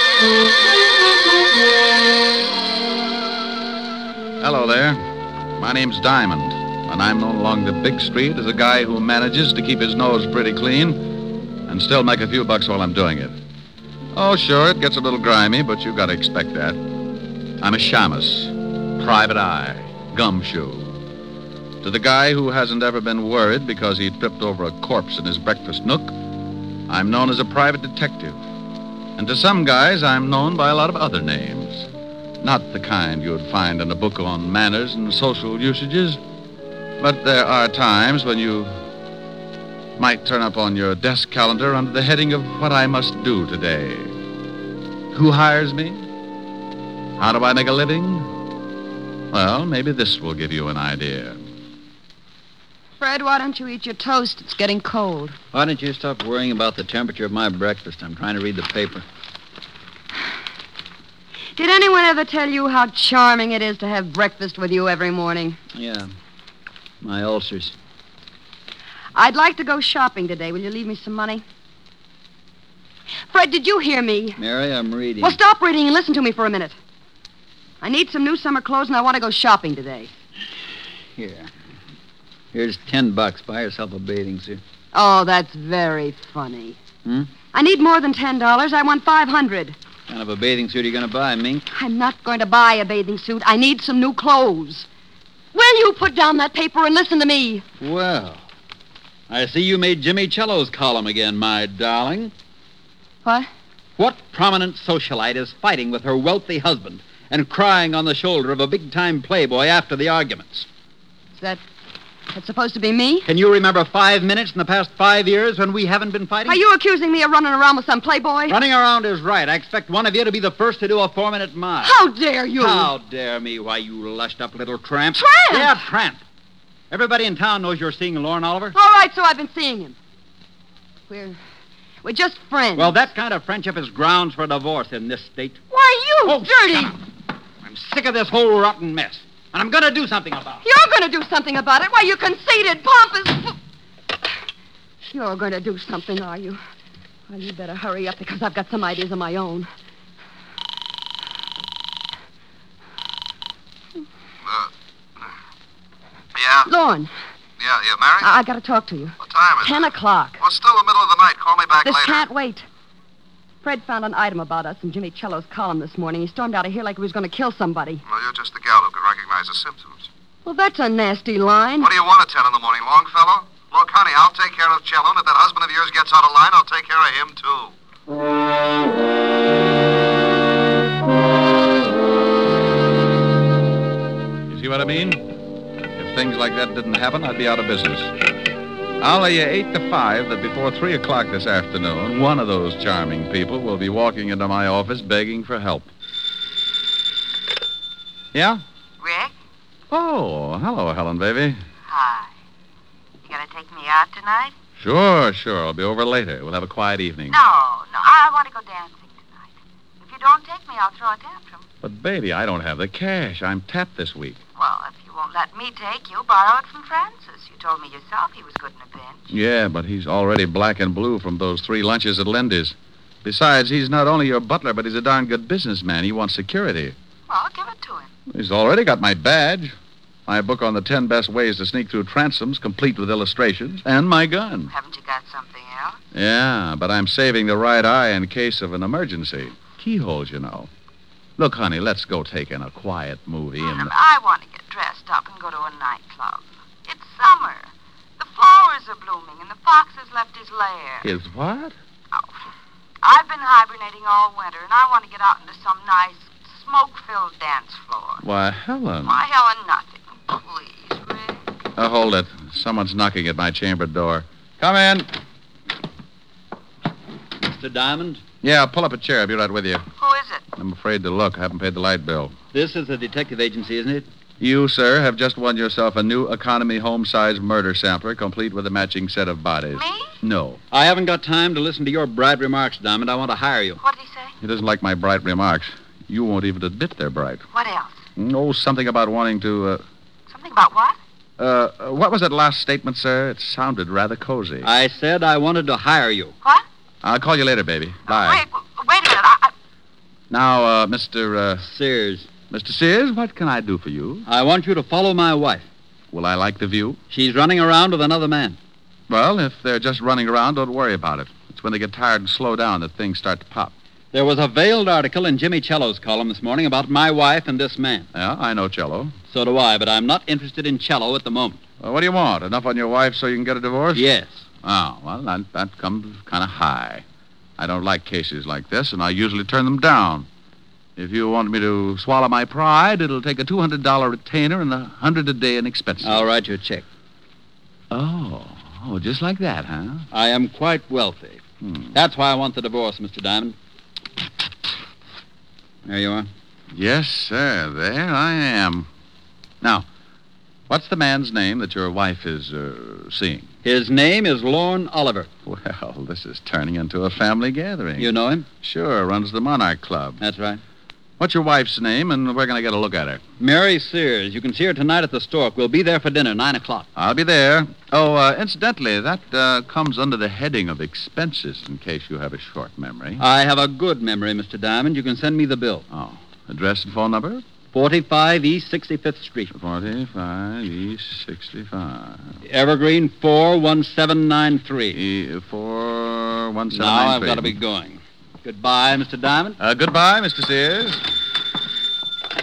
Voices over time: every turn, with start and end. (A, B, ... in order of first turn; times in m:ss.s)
0:04.4-0:05.0 A
0:05.6-0:13.3 A
0:14.1-0:16.8 A
0:17.6-0:21.0 A
0:21.8-0:26.2 A
0:26.9-0:28.4 A
0:29.2-0:31.9 A
0:32.4-0:36.2 A
0:37.0-0:38.7 A
0:40.0-0:44.1 A
0:45.1-0:46.0 A
0:47.2-0:48.3 A
0:49.3-0:51.4 A
0:53.0-0:55.4 B
0:55.5-0:59.0 C
1:01.6-1:05.6 B
1:05.7-1:06.1 C
1:07.0-1:07.7 C
1:09.1-1:11.4 B
1:13.3-1:14.4 B
1:14.4-1:15.4 C
1:15.2-1:16.8 B
1:17.8-1:20.1 B
1:21.2-1:21.5 C
1:22.5-1:24.6 C
1:24.9-1:26.8 B
1:27.5-1:29.8 B
1:30.1-1:31.6 C
1:31.7-1:34.9 B
1:35.5-1:37.6 B
1:37.8-1:38.4 C
1:39.3-1:42.3 C
1:43.2-1:43.5 B
1:44.0-1:50.7 C
1:52.3-1:53.3 B
1:53.2-1:56.6 C
1:56.5-1:58.6 B
1:58.5-2:02.0 C
2:01.8-2:02.9 B
2:02.5-2:06.2 C
2:05.2-2:05.8 B
2:06.9-2:08.7 C
2:08.7-2:10.0 B
2:11.1-2:11.4 B
2:12.0-2:13.1 B
2:12.8-2:15.6 C
2:15.7-2:16.9 B
2:16.2-2:16.9 C
2:17.6-2:20.6 C
2:20.6-2:23.5 B
2:25.0-2:26.6 B
2:27.3-2:29.7 B
2:36.3-2:36.7 D
2:36.6-2:37.1 B
2:37.6-2:38.3 D
2:38.2-2:40.4 B
2:39.2-2:39.9 D
2:40.4-2:42.3 D
2:41.8-2:42.6 B
2:43.6-2:48.0 B
2:48.0-2:50.1 D
2:50.4-2:51.9 B
2:51.8-2:57.7 D
3:04.5-3:05.2 A
3:06.0-3:08.1 A
3:09.0-3:15.9 A
3:18.3-3:18.6 A
3:19.0-3:19.3 E
3:19.9-3:21.6 A
3:21.9-3:22.3 E
3:23.2-3:24.5 E
3:24.8-3:27.4 A
3:27.3-3:31.6 E
3:31.8-3:34.4 A
3:34.6-3:39.3 E
3:39.3-3:47.0 A
3:47.3-3:48.1 E
3:48.3-3:49.7 A
3:50.3-3:54.7 A
3:54.7-3:56.0 E
3:56.1-4:00.7 A
4:01.4-4:03.9 A
4:03.6-4:11.1 E
4:11.0-4:11.7 A
4:13.0-4:18.2 E
4:18.2-4:19.2 A
4:19.0-4:21.4 E
4:21.8-4:25.1 A
4:27.4-4:28.2 C
4:28.4-4:29.8 A
4:30.0-4:30.4 E
4:30.6-4:32.3 A
4:32.5-4:34.0 C
4:34.4-4:40.6 A
4:39.7-4:40.2 E
4:40.7-4:43.8 C
4:43.8-4:44.3 E
4:44.4-4:47.4 A
4:47.5-4:48.0 E
4:48.2-4:49.8 A
4:50.3-4:51.0 E
4:51.4-4:54.7 A
4:54.6-4:56.3 C
4:57.0-4:58.4 A
4:58.1-4:59.5 E
5:00.3-5:01.6 A
5:01.6-5:02.3 C
5:02.5-5:04.3 A
5:04.3-5:05.6 C
5:06.1-5:07.0 A
5:07.1-5:08.6 C
5:09.1-5:13.7 A
5:14.1-5:18.1 C
5:18.1-5:19.1 A
5:19.3-5:21.6 C
5:21.8-5:24.1 A
5:23.9-5:24.3 C
5:24.6-5:27.0 A
5:27.6-5:30.3 A
5:31.0-5:36.2 A
5:36.0-5:36.8 C
5:37.9-5:40.0 A
5:40.1-5:41.4 C
5:41.6-5:41.9 A
5:41.9-5:43.5 C
5:45.8-5:46.3 C
5:46.7-5:48.9 A
5:50.7-5:53.5 A
5:53.6-5:55.3 C
5:55.5-6:00.2 A
5:58.0-5:58.4 C
6:00.2-6:00.6 C
6:01.2-6:03.2 A
6:03.4-6:06.9 C
6:07.0-6:13.2 A
6:13.2-6:15.8 C
6:15.9-6:17.4 A
6:17.7-6:19.5 C
6:19.5-6:22.2 A
6:22.4-6:25.0 C
6:24.9-6:27.6 A
6:26.7-6:29.6 C
6:29.6-6:31.0 A